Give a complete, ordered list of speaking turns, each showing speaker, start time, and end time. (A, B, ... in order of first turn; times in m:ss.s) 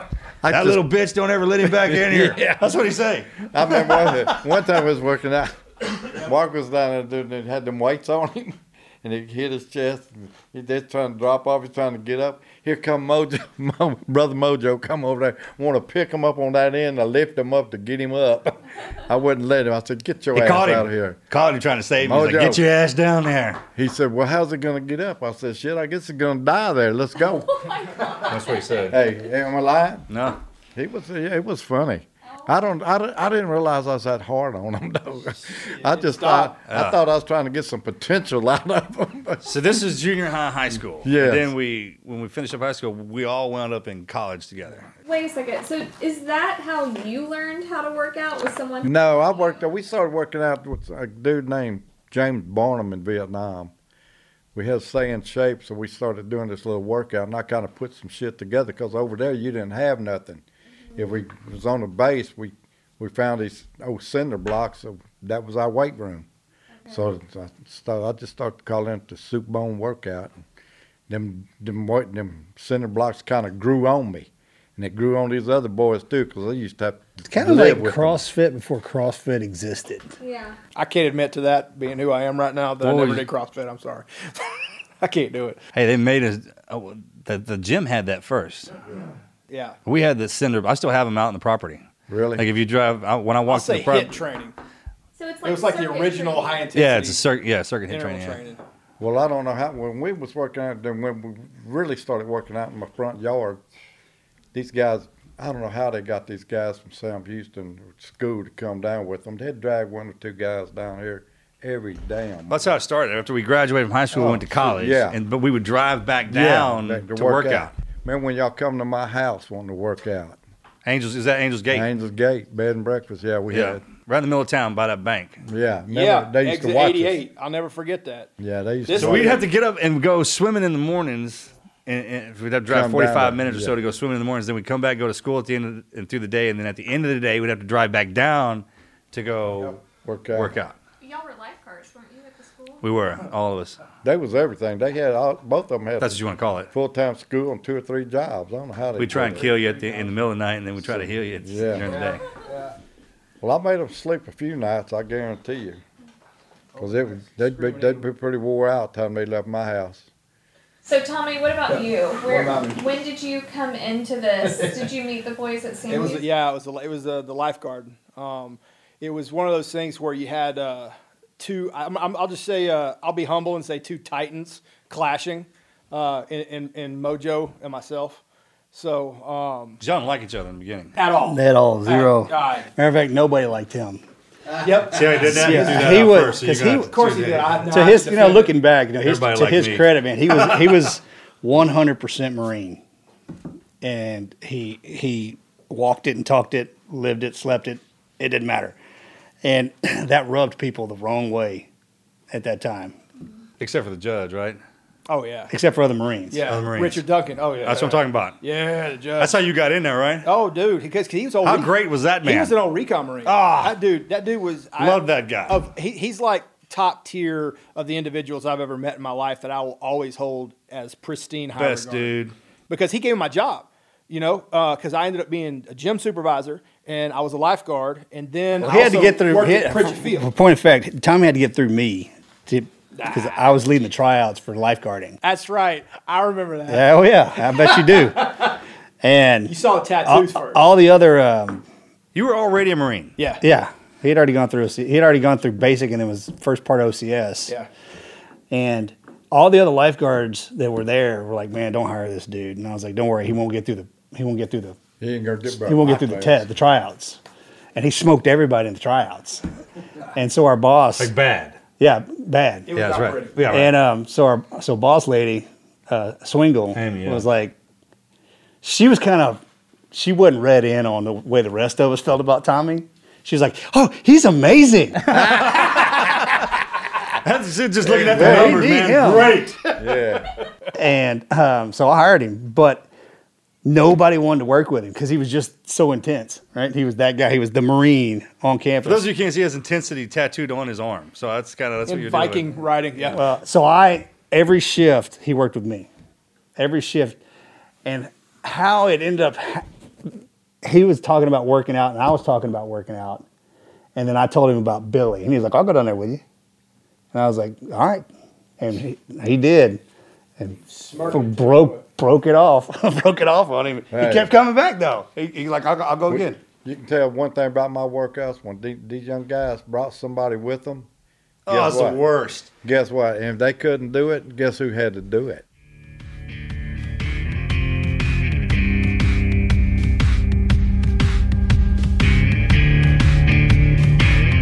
0:00.4-0:00.8 A
0:00.5-0:04.6 B
0:01.6-0:02.6 A
0:03.5-0:21.2 A
0:20.3-0:23.6 B
0:22.0-0:22.6 A
0:23.8-0:27.6 A
0:27.6-0:28.9 C
0:28.2-0:29.0 B
0:28.9-0:30.0 A
0:30.1-0:30.4 B
0:30.7-0:39.4 A
0:35.5-0:36.5 D
0:36.6-0:37.0 B
0:39.4-0:44.9 B
0:41.0-0:41.5 A
0:45.0-0:49.5 C
0:48.8-0:53.7 A
0:54.6-1:00.4 A
1:00.9-1:06.3 A
1:06.9-1:10.4 A
1:11.1-1:18.2 A
1:17.3-1:20.1 E
1:20.2-1:20.6 C
1:20.8-1:25.6 D
1:22.8-1:23.2 B
1:25.7-1:28.7 B
1:29.5-1:29.8 D
1:29.8-1:31.8 B
1:32.1-1:32.4 A
1:32.4-1:34.2 B
1:33.5-1:34.6 D
1:35.2-1:36.7 C
1:35.4-1:37.2 D
1:36.7-1:38.4 B
1:37.9-1:38.6 D
1:39.0-1:43.6 A
1:44.5-1:52.7 A
1:52.5-1:57.7 B
1:54.1-1:55.2 A
1:56.3-2:00.4 A
2:00.8-2:01.9 B
2:01.7-2:03.8 A
2:03.5-2:05.4 B
2:05.4-2:07.2 A
2:05.9-2:08.3 D
2:08.4-2:09.4 A
2:08.8-2:09.4 D
2:08.9-2:19.8 B
2:12.7-2:13.7 A
2:19.9-2:20.6 A
2:20.3-2:20.8 B
2:21.0-2:22.9 C
2:22.8-2:23.8 B
2:24.0-2:26.2 A
2:26.0-2:26.7 B
2:26.7-2:29.6 A
2:29.0-2:32.2 B
2:29.8-2:30.1 D
2:30.8-2:32.1 A
2:31.9-2:32.7 D
2:33.4-2:35.8 A
2:36.7-2:38.0 D
2:36.8-2:40.1 A
2:40.8-2:46.2 C
2:44.5-2:44.9 D
2:45.9-2:58.2 D
2:58.7-2:59.8 D
2:59.8-3:01.0 B
3:00.9-3:02.7 D
3:01.2-3:04.0 E
3:04.6-3:06.2 D
3:04.8-3:07.7 B
3:05.2-3:07.0 E
3:06.9-3:08.5 D
3:07.7-3:12.8 E
3:09.0-3:10.9 B
3:13.8-3:18.8 E
3:19.4-3:21.7 E
3:22.3-3:23.0 E
3:23.6-3:24.6 B
3:25.1-3:25.5 D
3:25.5-3:26.4 E
3:26.3-3:29.4 D
3:26.5-3:27.0 B
3:27.6-3:28.4 B
3:29.2-3:30.3 B
3:30.2-3:31.7 D
3:31.4-3:32.6 B
3:32.2-3:42.1 D
3:33.2-3:33.8 B
3:34.8-3:35.6 B
3:41.6-3:42.4 B
3:42.7-3:50.3 D
3:48.6-3:55.2 E
3:52.9-3:53.4 D
3:55.2-3:58.6 D
3:56.7-4:01.6 E
3:59.4-4:00.6 D
4:02.1-4:03.1 B
4:03.2-4:03.4 D
4:03.4-4:07.5 E
4:08.5-4:14.8 E
4:15.0-4:16.4 A
4:15.6-4:17.2 E
4:17.7-4:19.4 E
4:20.1-4:21.1 E
4:21.0-4:21.6 B
4:21.8-4:22.7 E
4:22.7-4:23.5 D
4:22.7-4:23.7 B
4:23.5-4:27.6 E
4:26.7-4:27.2 B
4:28.6-4:35.3 E
4:35.1-4:36.5 B
4:35.1-4:35.5 A
4:37.2-4:39.6 B
4:37.9-4:38.6 A
4:38.0-4:39.5 E
4:39.8-4:40.3 A
4:40.7-4:42.9 E
4:43.6-4:49.1 E
4:48.8-4:52.5 B
4:51.9-4:53.2 D
4:53.1-4:55.9 E
4:56.6-4:57.2 E
4:57.8-5:00.1 E
5:00.6-5:03.2 E
5:03.9-5:06.2 E
5:07.1-5:08.1 E
5:08.6-5:09.8 E
5:10.4-5:16.4 E
5:10.7-5:11.8 D
5:13.9-5:14.3 A
5:16.1-5:20.9 A
5:21.4-5:22.5 B
5:21.5-5:22.0 A
5:22.6-5:25.4 A